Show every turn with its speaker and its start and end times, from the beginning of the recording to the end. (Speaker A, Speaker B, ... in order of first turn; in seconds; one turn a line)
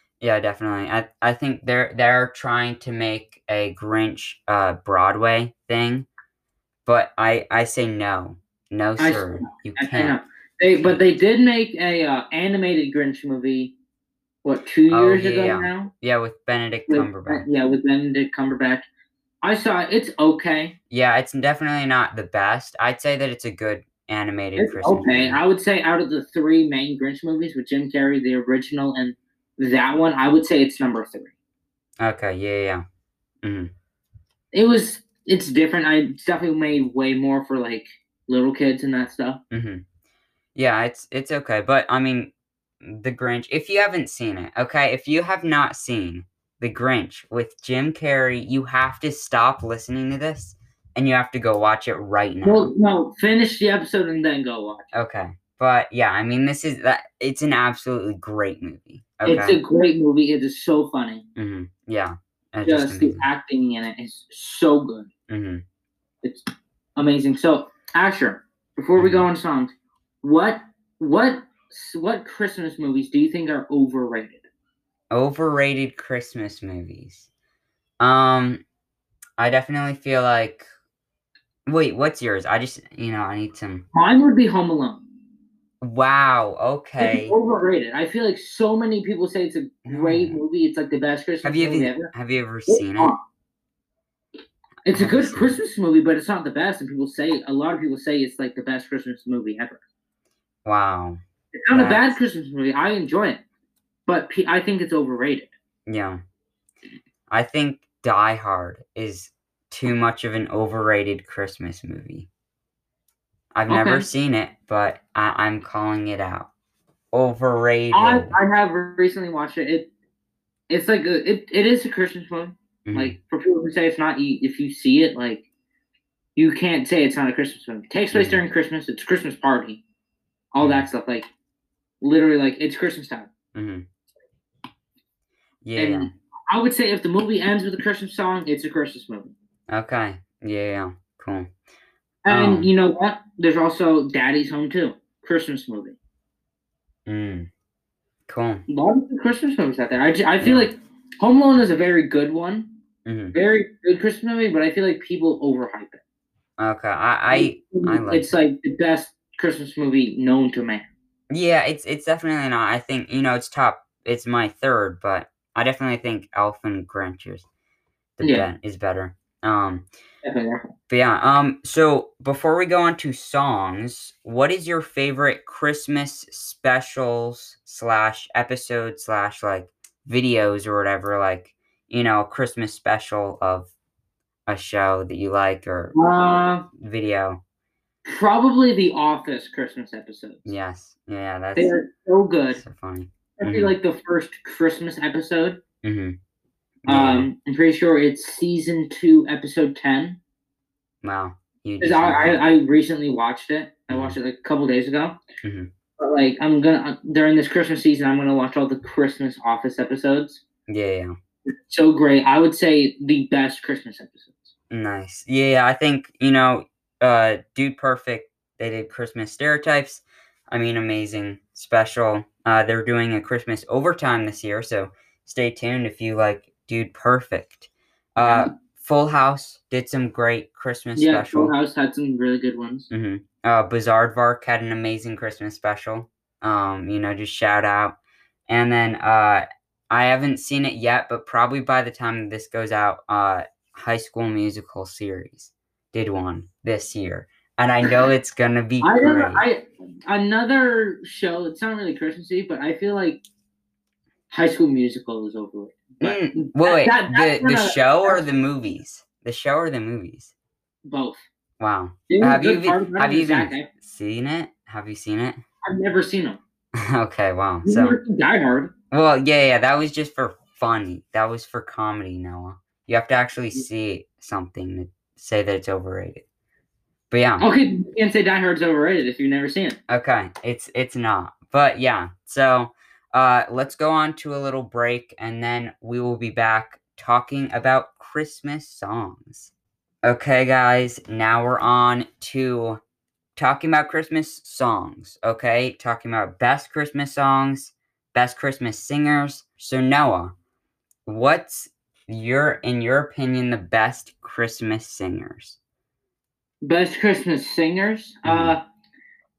Speaker A: 0.2-6.1
Speaker A: 6.9-10.2
Speaker B: 9.0-13.7
Speaker B: 14.4-15.9
Speaker A: 14.9-17.5
Speaker B: 16.9-18.9
Speaker B: 19.4-20.8
Speaker A: 20.9-25.4
Speaker B: 24.6-31.3
Speaker A: 32.0-32.8
Speaker A: 33.4-33.7
Speaker B: 34.5-39.4
Speaker A: 39.5-39.8
Speaker A: 40.5-52.7
Speaker B: 52.4-54.9
Speaker A: 54.9-59.6
Speaker B: 59.2-61.2
Speaker A: 61.4-63.2
Speaker B: 62.6-65.1
Speaker A: 65.3-65.6
Speaker B: 66.2-74.5
Speaker A: 69.0-69.3
Speaker A: 75.1-77.3
Speaker A: 78.0-78.6
Speaker A: 79.4-80.7
Speaker A: 81.7-83.8
Speaker B: 83.9-85.1
Speaker A: 85.8-87.3
Speaker B: 87.0-92.1
Speaker A: 89.9-90.4
Speaker A: 91.4-93.1
Speaker B: 92.7-93.2
Speaker B: 94.9-99.8
Speaker A: 94.9-95.6
Speaker A: 100.7-101.2
Speaker B: 101.5-103.4
Speaker A: 101.7-102.2
Speaker B: 104.1-105.5
Speaker A: 105.9-106.2
Speaker A: 107.3-112.3
Speaker A: 113.5-116.5
Speaker B: 113.7-114.1
Speaker A: 117.1-118.4
Speaker B: 117.9-119.9
Speaker B: 120.7-125.5
Speaker A: 122.9-123.2
Speaker B: 126.4-129.8
Speaker A: 128.1-128.4
Speaker B: 130.5-131.3
Speaker A: 130.6-130.9
Speaker B: 132.0-133.3
Speaker A: 133.5-133.8
Speaker A: 135.6-136.1
Speaker B: 135.8-139.3
Speaker A: 139.7-141.5
Speaker B: 142.2-146.0
Speaker A: 142.3-142.7
Speaker A: 147.1-147.5
Speaker A: 148.3-148.7
Speaker B: 148.7-152.7
Speaker A: 150.4-150.7
Speaker A: 153.1-153.3
Speaker B: 153.3-156.0
Speaker A: 156.6-158.3
Speaker B: 157.3-160.9
Speaker A: 161.3-167.5
Speaker A: 168.2-169.9
Speaker B: 168.2-168.5
Speaker B: 170.2-170.7
Speaker A: 170.9-183.7
Speaker A: 184.5-185.9
Speaker B: 185.9-186.7
Speaker A: 186.7-187.4
Speaker B: 188.1-190.5
Speaker A: 190.5-191.7
Speaker B: 191.6-192.6
Speaker A: 192.6-193.8
Speaker B: 193.4-195.6
Speaker A: 195.8-196.2
Speaker A: 196.9-197.3
Speaker B: 196.9-200.2
Speaker A: 201.0-202.4
Speaker B: 201.8-205.2
Speaker A: 203.9-204.2
Speaker A: 205.4-205.7
Speaker B: 206.0-210.4
Speaker A: 210.7-211.1
Speaker B: 211.7-214.5
Speaker A: 214.7-231.5
Speaker B: 228.2-228.5
Speaker B: 231.0-232.9
Speaker A: 232.9-238.0
Speaker A: 238.5-249.4
Speaker B: 248.8-253.2
Speaker B: 254.3-258.3
Speaker A: 256.0-260.3
Speaker B: 260.9-261.2
Speaker A: 261.6-265.4
Speaker B: 262.1-263.7
Speaker B: 265.6-266.4
Speaker A: 266.8-268.0
Speaker B: 267.6-268.7
Speaker A: 268.9-276.2
Speaker A: 277.1-277.5
Speaker B: 277.4-279.8
Speaker A: 279.9-289.5
Speaker A: 290.0-292.8
Speaker A: 293.4-300.3
Speaker A: 301.1-305.6
Speaker B: 306.6-308.6
Speaker A: 308.2-308.6